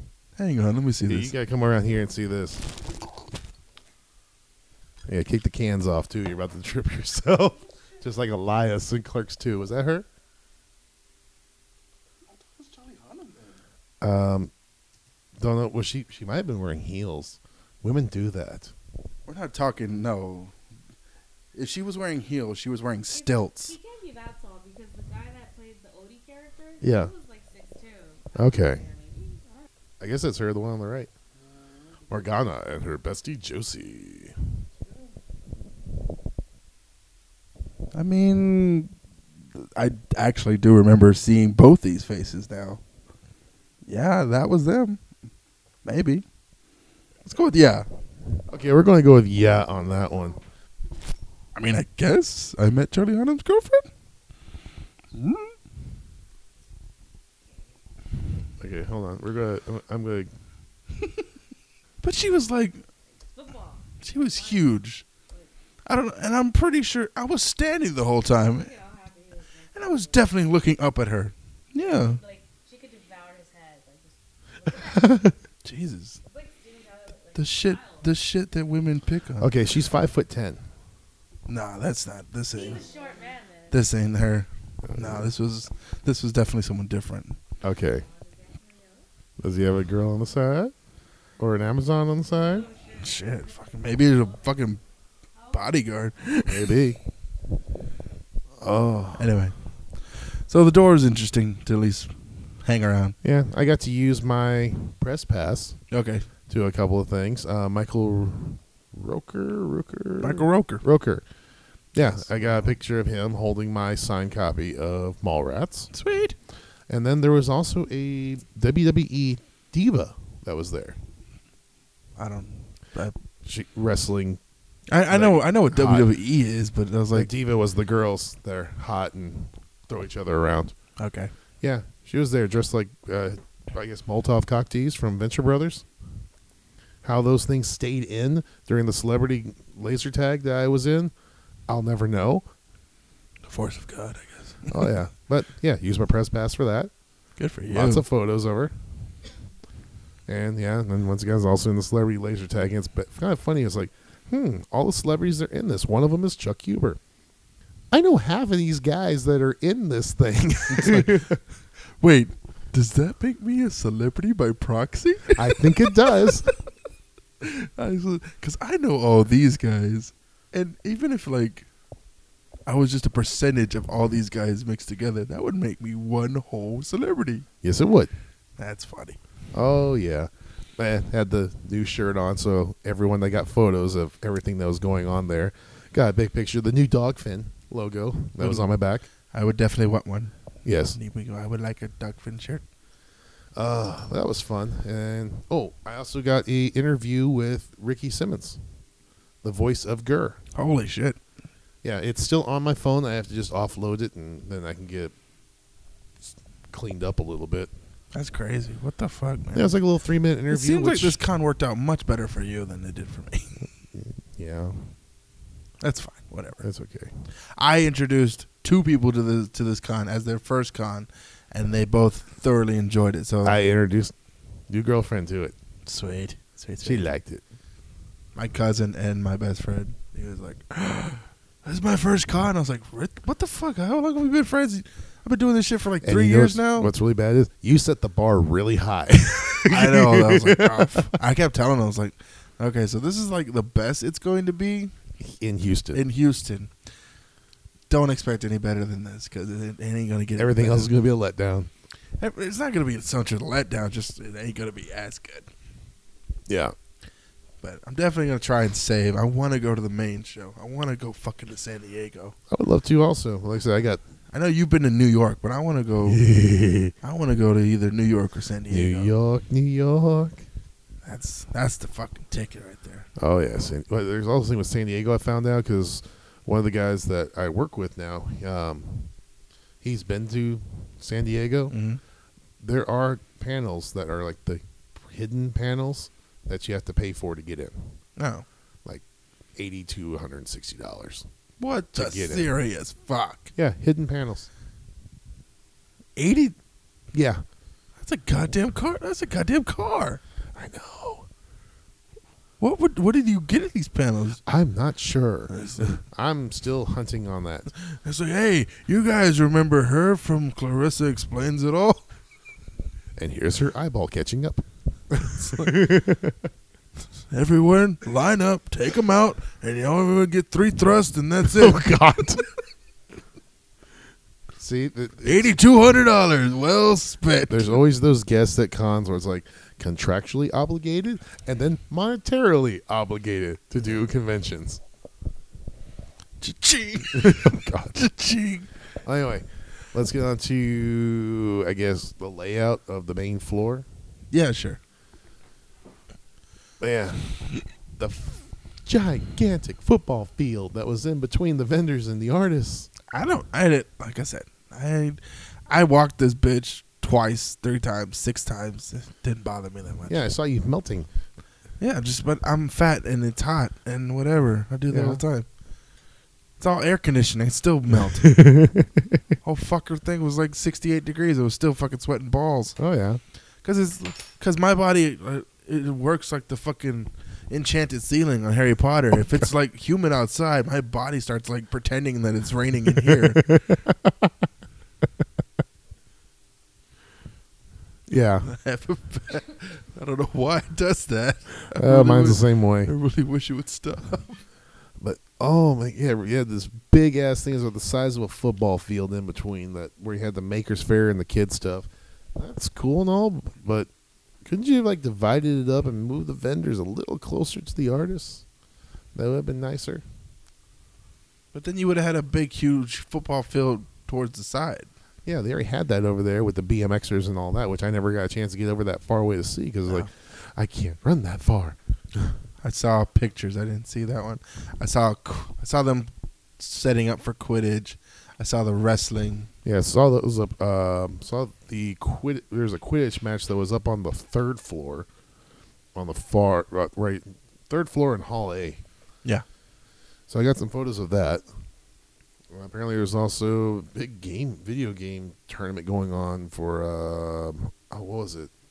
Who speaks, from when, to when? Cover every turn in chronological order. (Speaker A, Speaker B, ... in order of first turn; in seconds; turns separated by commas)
Speaker A: 0.4-1.3, Speaker B: 1.1-2.7, Speaker B: 5.1-10.1, Speaker A: 12.8-13.2, Speaker B: 14.0-14.5, Speaker B: 15.4-18.7, Speaker A: 19.3-20.5, Speaker A: 21.5-23.8, Speaker C: 23.1-29.7, Speaker B: 26.8-27.1, Speaker B: 28.3-28.8, Speaker B: 30.0-31.1, Speaker B: 32.1-34.4, Speaker A: 37.9-38.9, Speaker A: 39.5-42.8, Speaker A: 43.9-45.0, Speaker A: 45.8-46.2, Speaker A: 47.2-47.9, Speaker B: 48.5-50.4, Speaker A: 51.5-53.9, Speaker A: 55.1-55.5, Speaker B: 58.6-60.3, Speaker A: 62.0-62.8, Speaker C: 63.1-65.5, Speaker A: 64.0-65.0, Speaker A: 65.8-68.7, Speaker C: 68.4-70.3, Speaker A: 69.7-72.2, Speaker C: 71.8-75.3, Speaker B: 75.0-75.3, Speaker A: 75.6-76.2, Speaker C: 76.2-78.2, Speaker A: 77.3-79.5, Speaker B: 79.4-80.7, Speaker A: 81.5-83.1, Speaker C: 82.5-83.9, Speaker A: 83.7-87.4, Speaker B: 84.8-85.3, Speaker B: 87.6-88.0, Speaker C: 87.8-89.1, Speaker B: 89.4-90.7, Speaker B: 91.4-92.7, Speaker C: 92.3-94.7, Speaker A: 93.0-94.8, Speaker C: 95.3-96.1, Speaker A: 95.5-96.8, Speaker B: 96.5-97.0, Speaker B: 98.6-99.3, Speaker A: 99.2-99.5, Speaker A: 100.5-103.2, Speaker B: 103.2-105.8, Speaker A: 105.9-106.2, Speaker B: 106.5-111.2, Speaker A: 110.2-110.8, Speaker B: 111.9-115.9, Speaker A: 112.2-112.7, Speaker A: 115.9-116.3, Speaker B: 116.9-121.0, Speaker A: 122.2-123.2, Speaker B: 123.4-124.4, Speaker A: 124.9-127.3, Speaker B: 125.1-126.1, Speaker B: 127.1-130.7, Speaker A: 131.0-131.3, Speaker B: 131.6-135.8, Speaker B: 137.0-141.1, Speaker B: 141.7-142.4, Speaker A: 143.5-144.9, Speaker B: 144.7-146.9, Speaker A: 147.4-148.0, Speaker B: 147.7-148.7, Speaker B: 150.3-157.0, Speaker B: 157.9-161.4, Speaker A: 160.7-161.4, Speaker A: 162.0-166.3, Speaker B: 165.3-166.5, Speaker A: 167.4-171.7, Speaker A: 172.7-177.4, Speaker B: 177.6-178.1, Speaker A: 178.6-179.2, Speaker B: 179.5-189.1, Speaker A: 188.4-188.7, Speaker A: 189.3-190.3, Speaker B: 190.6-191.0, Speaker A: 190.9-192.6, Speaker B: 193.5-198.6, Speaker B: 199.4-200.4, Speaker A: 200.5-201.2, Speaker B: 201.8-205.1, Speaker B: 206.7-207.7, Speaker A: 208.1-209.7, Speaker B: 209.5-211.2, Speaker A: 210.5-213.6, Speaker B: 213.9-214.9, Speaker A: 215.8-216.6, Speaker B: 216.6-217.1, Speaker A: 217.5-223.6, Speaker B: 223.4-224.1, Speaker B: 224.7-225.5, Speaker A: 225.8-227.1, Speaker B: 226.8-227.4, Speaker A: 228.3-236.9, Speaker B: 236.0-241.0, Speaker A: 239.6-244.9, Speaker B: 245.2-246.0, Speaker A: 245.9-246.7, Speaker A: 247.9-250.9, Speaker B: 250.4-251.7, Speaker A: 252.2-255.5, Speaker B: 256.5-256.7, Speaker A: 257.6-262.3, Speaker B: 262.5-264.0, Speaker A: 264.3-266.2, Speaker B: 266.0-266.9, Speaker A: 267.0-269.1, Speaker B: 268.7-270.4, Speaker A: 271.0-273.1, Speaker B: 273.2-279.1, Speaker B: 279.8-281.8, Speaker A: 281.7-282.0, Speaker B: 282.6-288.0, Speaker A: 288.2-288.4, Speaker B: 289.5-291.3, Speaker A: 291.6-293.5, Speaker B: 291.9-292.5, Speaker B: 293.6-294.5, Speaker A: 296.1-296.5, Speaker B: 297.1-297.4, Speaker A: 298.0-300.2, Speaker B: 300.5-301.3, Speaker A: 302.6-304.4, Speaker B: 304.4-307.7, Speaker A: 305.5-306.0, Speaker A: 307.8-312.0, Speaker B: 313.2-316.5, Speaker A: 315.2-315.8, Speaker A: 317.3-321.9, Speaker B: 321.4-322.4, Speaker B: 324.6-325.6, Speaker A: 325.2-327.8, Speaker B: 327.5-334.8, Speaker A: 336.4-338.7, Speaker B: 337.1-338.1, Speaker B: 339.0-343.9, Speaker A: 344.3-344.8, Speaker B: 346.8-352.9, Speaker A: 353.1-360.2, Speaker B: 360.1-361.1, Speaker A: 361.8-365.4, Speaker B: 364.9-365.2, Speaker A: 366.6-368.4, Speaker B: 368.3-369.2, Speaker A: 369.4-372.8, Speaker B: 372.8-373.2, Speaker A: 373.6-383.5, Speaker B: 383.0-384.3, Speaker B: 388.1-388.5, Speaker A: 388.4-394.4, Speaker B: 391.7-392.9, Speaker B: 395.0-403.9, Speaker B: 404.4-408.4, Speaker B: 409.1-410.0, Speaker A: 411.5-414.9, Speaker B: 415.2-422.3, Speaker A: 422.6-429.5, Speaker B: 429.6-435.1, Speaker B: 435.9-438.8, Speaker B: 440.3-441.4, Speaker B: 442.5-448.5